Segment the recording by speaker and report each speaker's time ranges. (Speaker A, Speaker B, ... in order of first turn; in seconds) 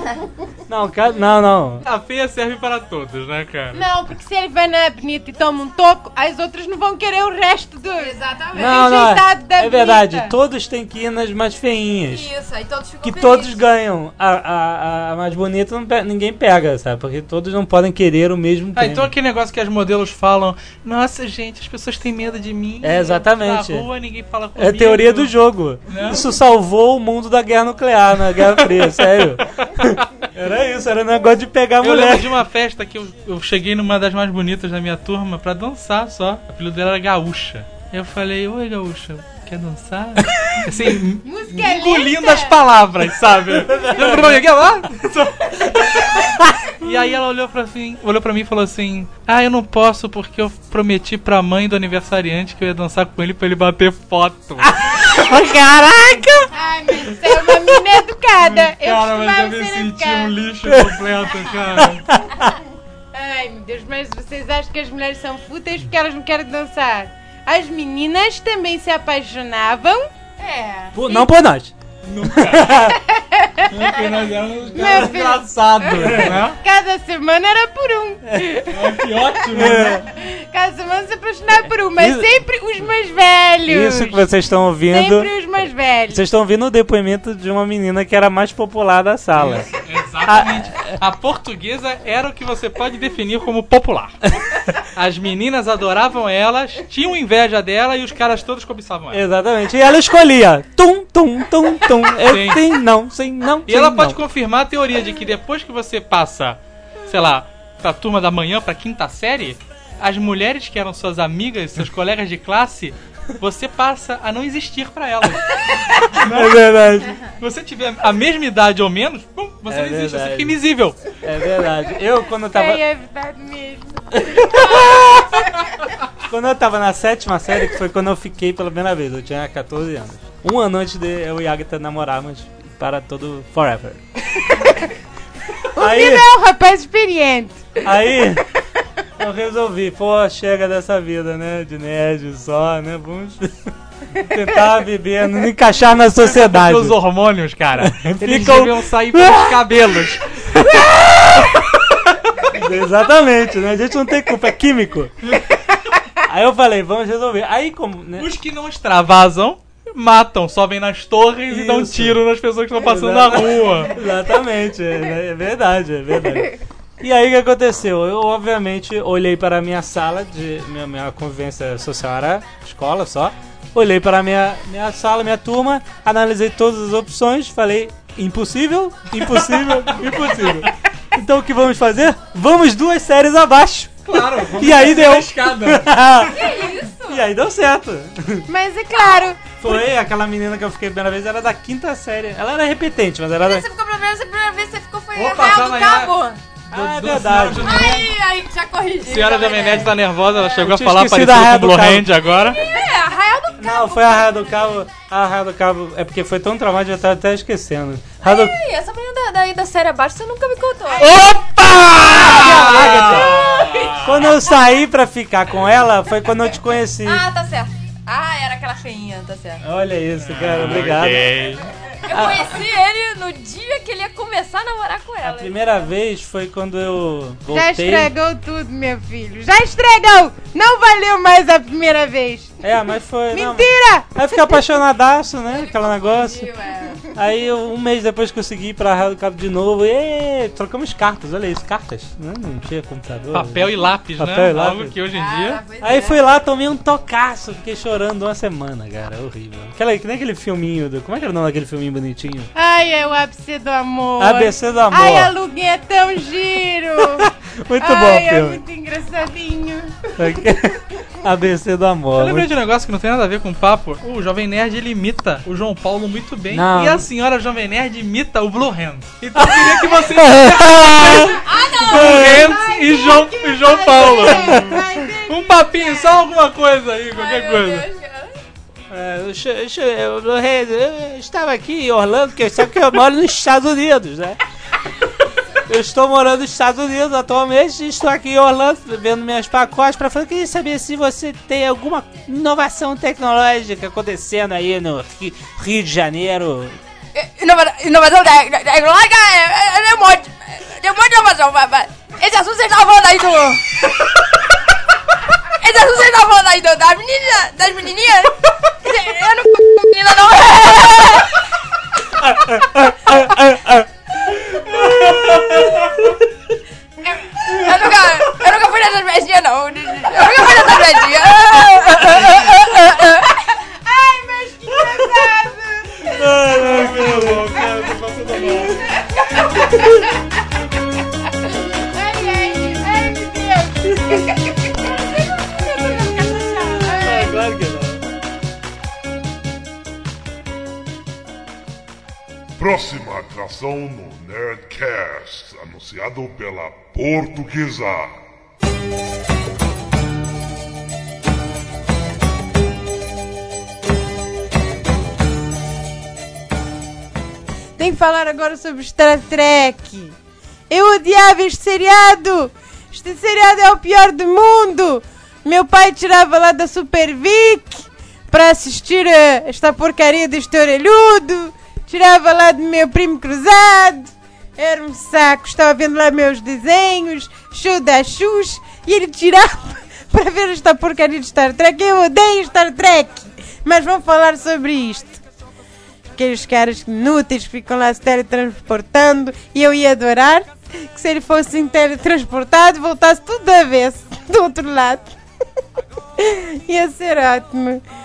Speaker A: 0.7-1.9, 8.5-12.3, 13.0-19.1, 22.8-23.9, 24.6-32.4, 43.6-44.4, 46.3-46.6, 54.6-56.5, 60.7-61.0, 61.8-62.5, 70.9-71.7, 72.3-73.0, 76.0-76.4, 79.5-80.0, 82.0-82.3, 83.7-85.3, 86.1-89.7, 90.2-90.9, 99.1-104.2, 116.2-117.2, 119.7-120.6, 121.2-122.8, 124.1-125.5, 126.2-134.7, 135.8-136.3, 137.8-138.4, 139.2-147.0, 147.8-151.5, 152.5-155.3, 156.2-158.3, 161.5-162.2, 162.8-188.5, 189.6-193.7, 196.7-197.8, 200.6-202.1, 203.6-208.6, 211.0-217.2, 219.6-221.3, 222.1-222.6, 225.2-228.1, 232.6-236.5, 237.1-244.9, 245.8-252.5, 254.2-255.3, 257.1-258.6, 260.2-262.5, 266.5-267.0, 269.4-272.4, 274.3-274.8, 278.9-284.4, 285.6-296.8, 312.4-313.9, 314.5-316.1, 322.0-322.7, 324.8-325.1, 326.1-328.8, 329.5-330.0, 335.8-338.0
Speaker B: 1.8-3.8, 18.8-25.3, 25.9-26.2, 29.6-30.0, 31.8-46.3, 46.8-55.0, 58.5-62.1, 72.0-72.9, 73.7-76.6, 78.7-80.0, 89.3-99.2, 102.2-102.7, 103.7-116.7, 117.4-121.0, 146.2-152.1, 155.2-155.5, 158.2-163.9, 179.3-180.7, 184.1-185.9, 195.2-196.1, 196.7-198.1, 199.0-202.6, 211.0-214.3, 220.2-221.7, 243.3-245.6, 262.2-277.9, 315.2-315.6, 326.5-328.8
Speaker C: 3.7-10.3, 41.2-42.5, 56.5-60.4, 63.1-70.1, 73.1-73.7, 74.7-78.8, 79.6-84.2, 84.9-86.2, 122.4-124.6, 135.7-137.7, 188.5-189.5, 227.5-232.6, 233.3-234.5, 252.5-260.1, 272.2-276.0, 323.7-326.3, 331.6-334.6, 336.8-337.4, 357.8-360.1, 360.7-385.2, 386.1-395.2, 396.2-397.8
Speaker D: 8.0-9.0, 12.1-13.6, 70.4-71.1, 186.2-187.2, 193.4-196.4, 197.6-199.9, 202.5-204.4, 208.2-214.6, 217.0-219.6, 221.9-225.8, 235.5-237.1, 245.1-246.2, 271.4-272.6, 277.1-278.4, 297.1-304.2, 305.5-311.4, 317.1-323.5, 334.8-337.2
Speaker E: 342.6-348.1